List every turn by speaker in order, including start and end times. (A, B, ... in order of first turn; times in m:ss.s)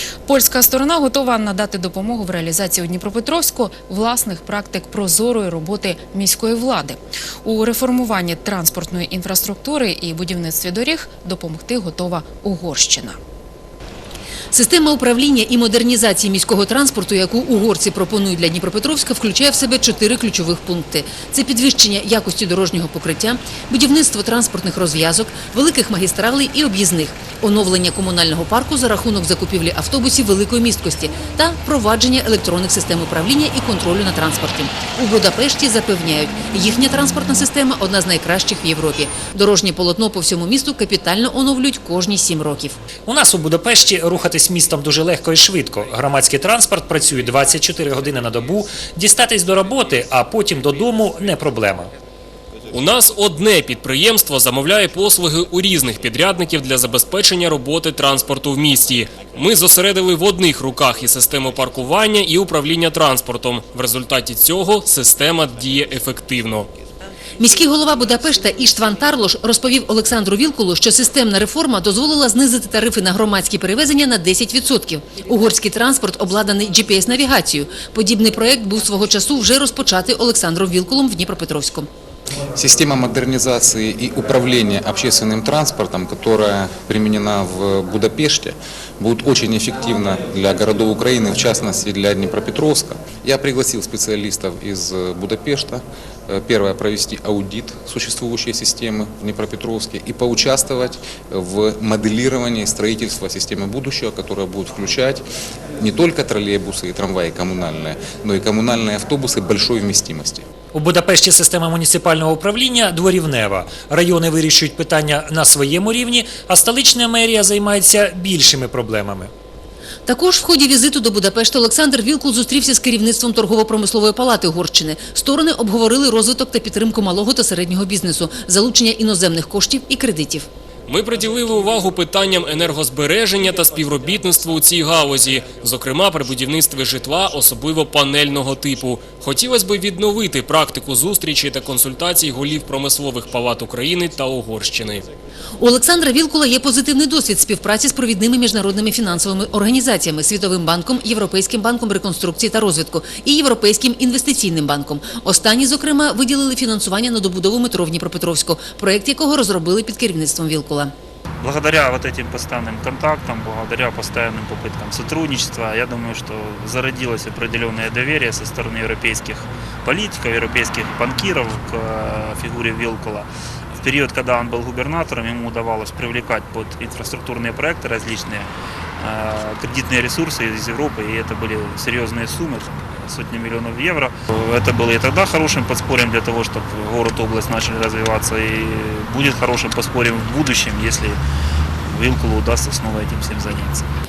0:00.3-0:13.2 A
0:14.5-0:42.8 B
0:43.0-0:51.9 C
0:52.7-1:06.7 D
1:07.4-1:21.9 B
1:22.5-1:45.2 E
1:45.8-1:50.4 E
1:50.7-1:59.3 C
2:00.1-2:10.5 B
2:10.9-2:25.1 D
2:25.6-2:40.9 B
2:41.4-3:11.2 F
3:11.9-3:13.9 F